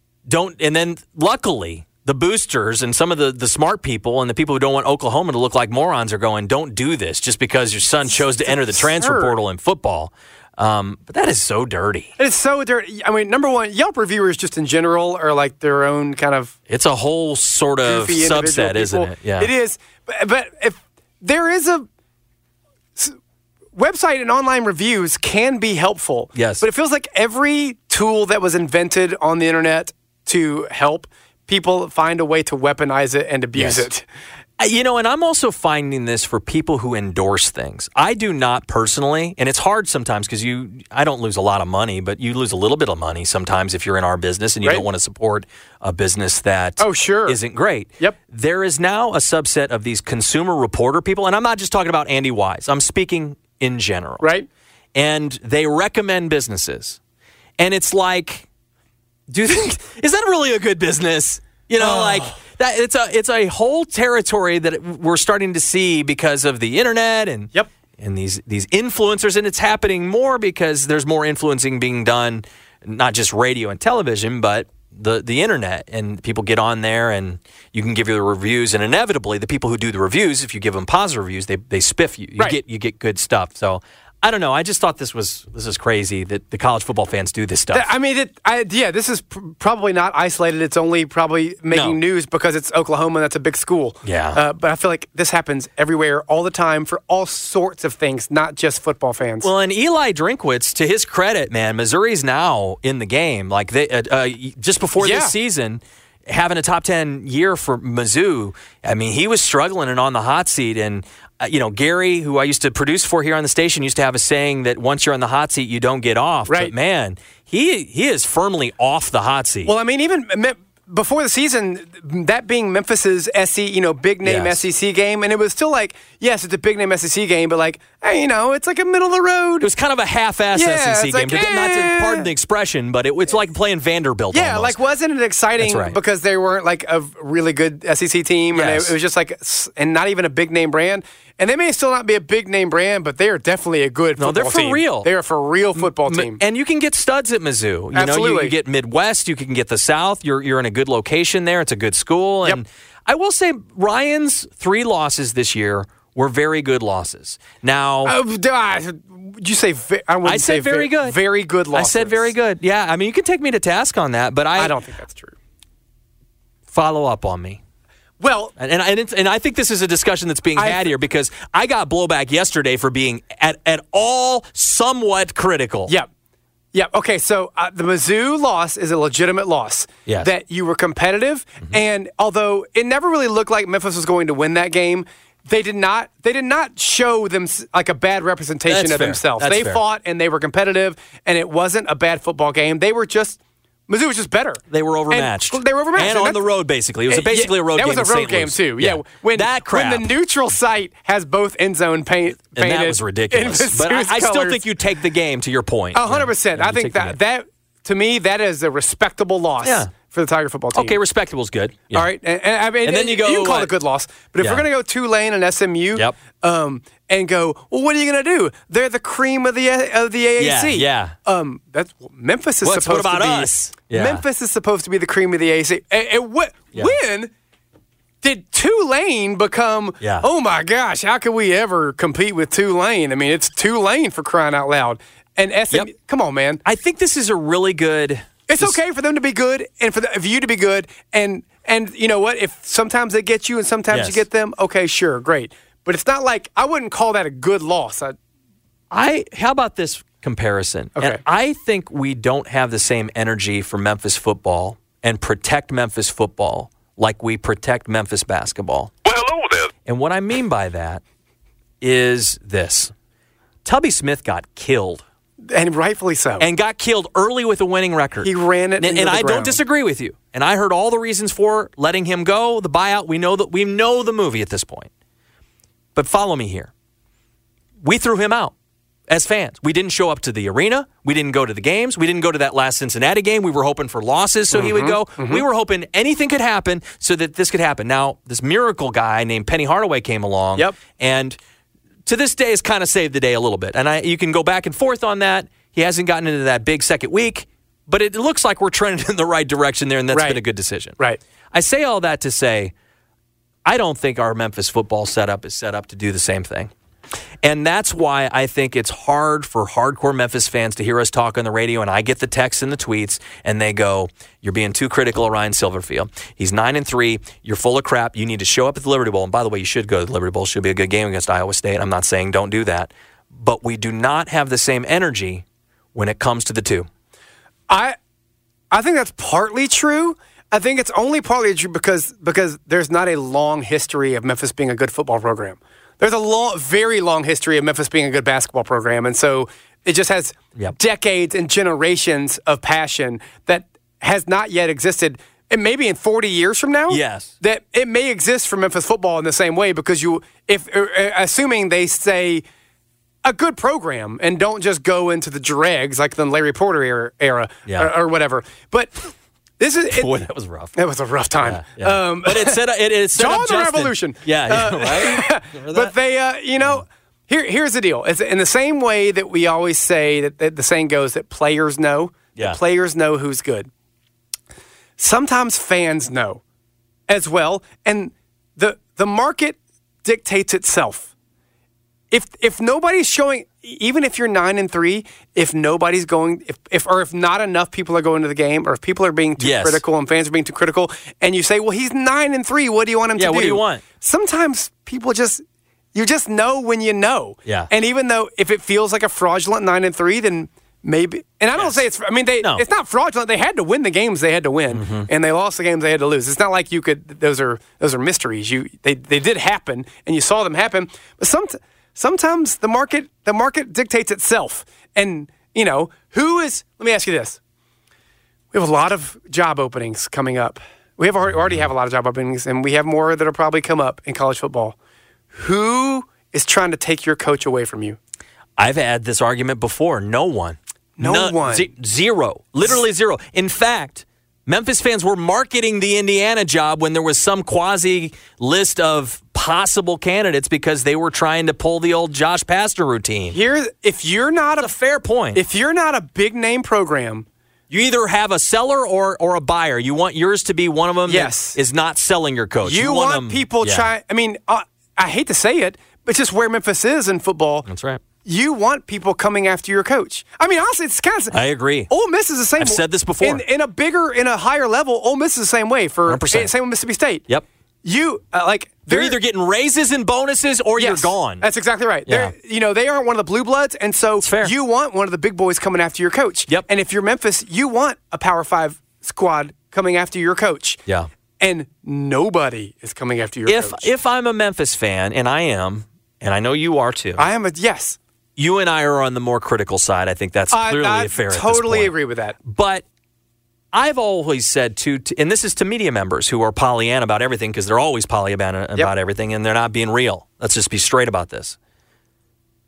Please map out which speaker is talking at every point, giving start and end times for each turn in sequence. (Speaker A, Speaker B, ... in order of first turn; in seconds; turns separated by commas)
Speaker A: 0.3-12.1, Speaker B: 8.1-9.3, Speaker B: 12.2-16.5, Speaker A: 16.7-19.5, Speaker B: 17.9-21.9, Speaker B: 23.8-34.0, Speaker A: 26.3-26.6, Speaker A: 33.6-33.9, Speaker A: 34.6-54.3, Speaker B: 46.8-47.4, Speaker B: 54.2-54.5, Speaker A: 55.0-57.0, Speaker A: 57.6-58.5, Speaker A: 59.3-87.9, Speaker B: 61.8-62.3, Speaker B: 87.7-99.5, Speaker A: 91.7-92.0, Speaker A: 94.0-94.4, Speaker A: 99.4-119.7, Speaker B: 105.0-105.3, Speaker B: 119.7-129.7, Speaker A: 124.2-124.6, Speaker A: 129.6-134.8, Speaker B: 130.5-132.3, Speaker B: 134.3-146.4, Speaker A: 135.6-136.0, Speaker A: 138.5-138.9, Speaker A: 144.2-145.1, Speaker A: 145.8-158.2, Speaker B: 147.9-148.6, Speaker B: 158.1-162.3, Speaker A: 160.2-161.2, Speaker A: 161.7-164.8, Speaker B: 164.6-165.3, Speaker A: 166.7-167.6, Speaker B: 168.2-168.6, Speaker A: 168.6-175.9, Speaker B: 170.6-170.9, Speaker B: 176.7-196.4, Speaker A: 188.7-189.8, Speaker A: 194.7-200.1, Speaker B: 197.1-204.6, Speaker A: 202.6-207.2, Speaker B: 205.9-211.0, Speaker A: 209.6-209.9, Speaker A: 210.7-212.1, Speaker B: 211.9-227.3, Speaker A: 212.8-213.7, Speaker A: 214.4-214.7, Speaker A: 220.4-221.2, Speaker A: 222.6-224.2, Speaker B: 228.2-236.6, Speaker A: 230.0-230.3, Speaker A: 236.7-238.8, Speaker B: 238.5-248.2, Speaker A: 243.9-244.2, Speaker A: 248.9-261.0, Speaker A: 261.8-262.9, Speaker A: 263.6-265.0, Speaker B: 265.5-266.5, Speaker A: 266.4-274.9, Speaker B: 268.2-269.6, Speaker A: 275.9-276.7, Speaker A: 277.8-278.5, Speaker A: 279.1-291.4, Speaker B: 284.5-285.4, Speaker A: 292.1-301.0, Speaker B: 300.1-300.4, Speaker A: 301.5-302.7, Speaker A: 303.6-306.7, Speaker A: 307.4-325.4, Speaker A: 325.9-326.9, Speaker B: 327.7-328.0, Speaker B: 328.7-352.4, Speaker A: 346.9-347.3, Speaker B: 353.2-360.2, Speaker A: 357.7-357.9, Speaker A: 359.9-360.7, Speaker B: 360.8-362.6, Speaker A: 361.4-365.9, Speaker B: 363.1-373.7, Speaker B: 375.0-376.4, Speaker B: 377.1-381.1, Speaker B: 382.1-395.4, Speaker A: 389.4-389.8, Speaker A: 393.2-393.8, Speaker B: 395.9-417.4, Speaker A: 397.4-397.7, Speaker A: 401.6-401.8, Speaker A: 402.4-402.6, Speaker A: 404.7-405.1, Speaker B: 418.5-424.8, Speaker B: 425.3-428.0, Speaker A: 428.6-443.4, Speaker B: 431.0-431.7, Speaker B: 443.3-444.7, Speaker A: 444.6-445.4, Speaker B: 445.3-447.3, Speaker A: 447.7-453.9, Speaker B: 451.1-451.6, Speaker B: 452.6-457.7, Speaker A: 457.7-458.0, Speaker B: 458.2-461.4, Speaker A: 461.3-461.9, Speaker B: 461.9-467.2, Speaker A: 462.6-463.4, Speaker A: 466.1-466.5, Speaker B: 467.8-469.2, Speaker A: 468.9-471.5, Speaker B: 470.8-480.8, Speaker A: 472.1-472.3, Speaker A: 474.2-474.5, Speaker B: 481.4-483.9, Speaker A: 483.5-487.3, Speaker B: 487.2-488.0, Speaker A: 488.4-491.9, Speaker B: 490.5-492.4, Speaker A: 492.4-492.8, Speaker A: 493.7-501.6